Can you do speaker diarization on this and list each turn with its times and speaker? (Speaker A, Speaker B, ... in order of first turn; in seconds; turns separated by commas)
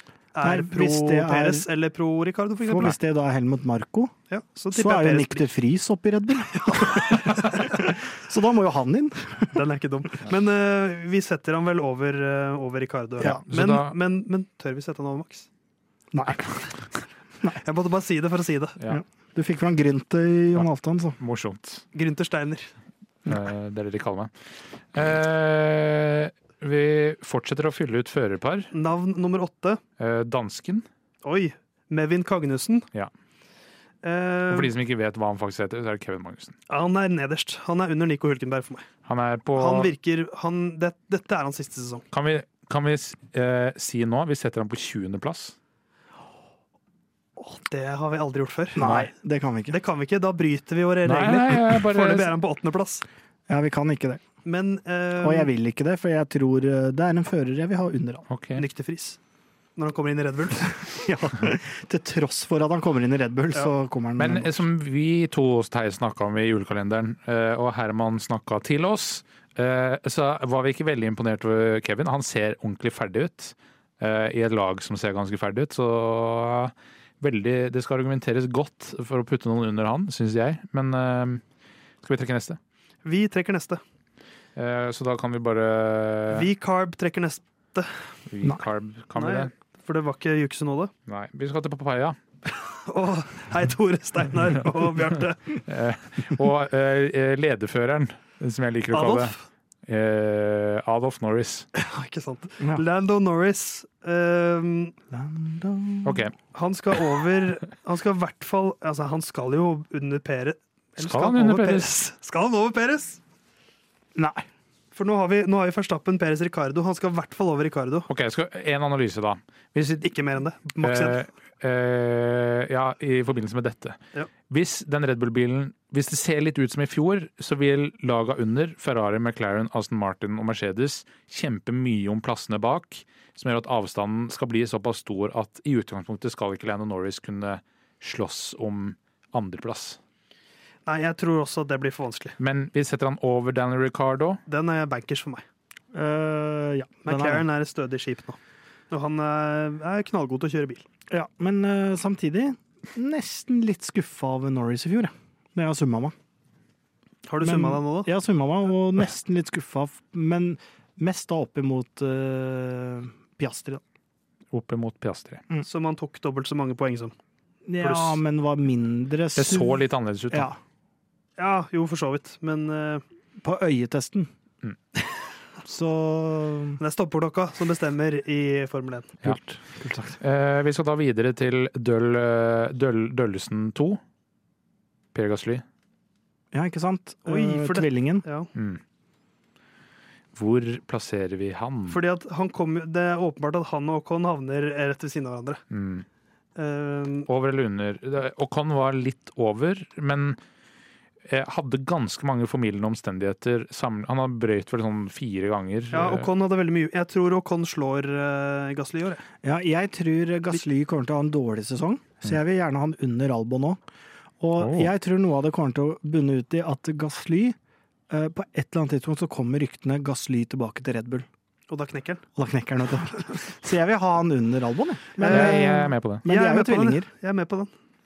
Speaker A: 0.3-3.0, Speaker B: 0.4-1.6, Speaker B: 2.7-4.1, Speaker A: 4.3-5.5, Speaker B: 4.7-9.5, Speaker A: 6.7-7.9, Speaker A: 9.5-15.5, Speaker C: 13.2-13.9, Speaker B: 16.1-16.9, Speaker A: 17.5-18.8, Speaker B: 18.9-21.2, Speaker C: 21.2-21.8, Speaker A: 21.9-22.7, Speaker C: 23.3-24.3, Speaker C: 24.9-28.7, Speaker A: 28.7-29.8, Speaker C: 30.0-30.9, Speaker A: 31.2-32.9, Speaker A: 34.0-34.7, Speaker C: 34.5-36.5, Speaker A: 36.7-38.9, Speaker C: 39.0-39.9, Speaker A: 39.5-42.0, Speaker C: 42.1-45.5, Speaker A: 47.4-48.9, Speaker B: 48.8-49.7, Speaker C: 48.8-49.1, Speaker A: 49.7-53.0, Speaker C: 51.0-52.3, Speaker B: 53.5-54.2, Speaker A: 54.4-55.5, Speaker B: 55.2-58.2, Speaker C: 58.3-58.6, Speaker A: 58.5-59.2, Speaker A: 59.8-60.8, Speaker B: 60.8-64.6, Speaker C: 64.2-81.4, Speaker C: 82.0-82.6, Speaker A: 83.0-83.8, Speaker C: 84.5-86.5, Speaker A: 86.3-87.9, Speaker C: 88.3-89.5, Speaker A: 89.1-90.9, Speaker C: 91.1-92.2, Speaker A: 92.7-95.4, Speaker C: 95.7-99.3, Speaker A: 98.9-99.4, Speaker C: 99.9-101.7, Speaker A: 101.7-104.9, Speaker B: 105.1-106.2, Speaker C: 106.0-106.3, Speaker A: 106.5-113.2, Speaker C: 111.0-111.9, Speaker B: 114.2-114.4, Speaker A: 114.9-118.1, Speaker C: 118.1-120.1, Speaker A: 120.0-121.2, Speaker C: 120.8-140.0, Speaker A: 140.8-142.3, Speaker C: 142.4-144.4, Speaker A: 144.5-145.4, Speaker B: 145.9-147.4, Speaker A: 147.0-148.4, Speaker A: 148.9-150.8, Speaker B: 151.1-156.1, Speaker A: 157.3-158.1, Speaker B: 157.4-163.8, Speaker C: 164.5-165.4, Speaker A: 165.6-167.1, Speaker B: 167.7-170.6, Speaker A: 167.8-168.2, Speaker C: 169.3-170.5, Speaker A: 171.4-173.0, Speaker B: 173.4-174.3, Speaker B: 175.6-176.8, Speaker A: 176.8-179.2, Speaker B: 179.2-180.2, Speaker C: 180.2-184.0, Speaker C: 185.1-185.6, Speaker B: 186.5-188.2, Speaker A: 187.2-188.5, Speaker C: 188.5-188.8, Speaker C: 190.3-192.0, Speaker A: 191.9-195.6, Speaker C: 195.7-196.1, Speaker A: 196.6-197.3, Speaker C: 197.3-200.4, Speaker C: 201.3-206.3, Speaker A: 205.9-209.2, Speaker B: 209.4-213.8, Speaker B: 214.4-217.6, Speaker C: 214.6-214.9, Speaker B: 218.1-221.3, Speaker A: 221.7-222.2, Speaker B: 222.3-227.1, Speaker A: 225.2-225.7, Speaker C: 225.2-226.2, Speaker A: 226.2-227.7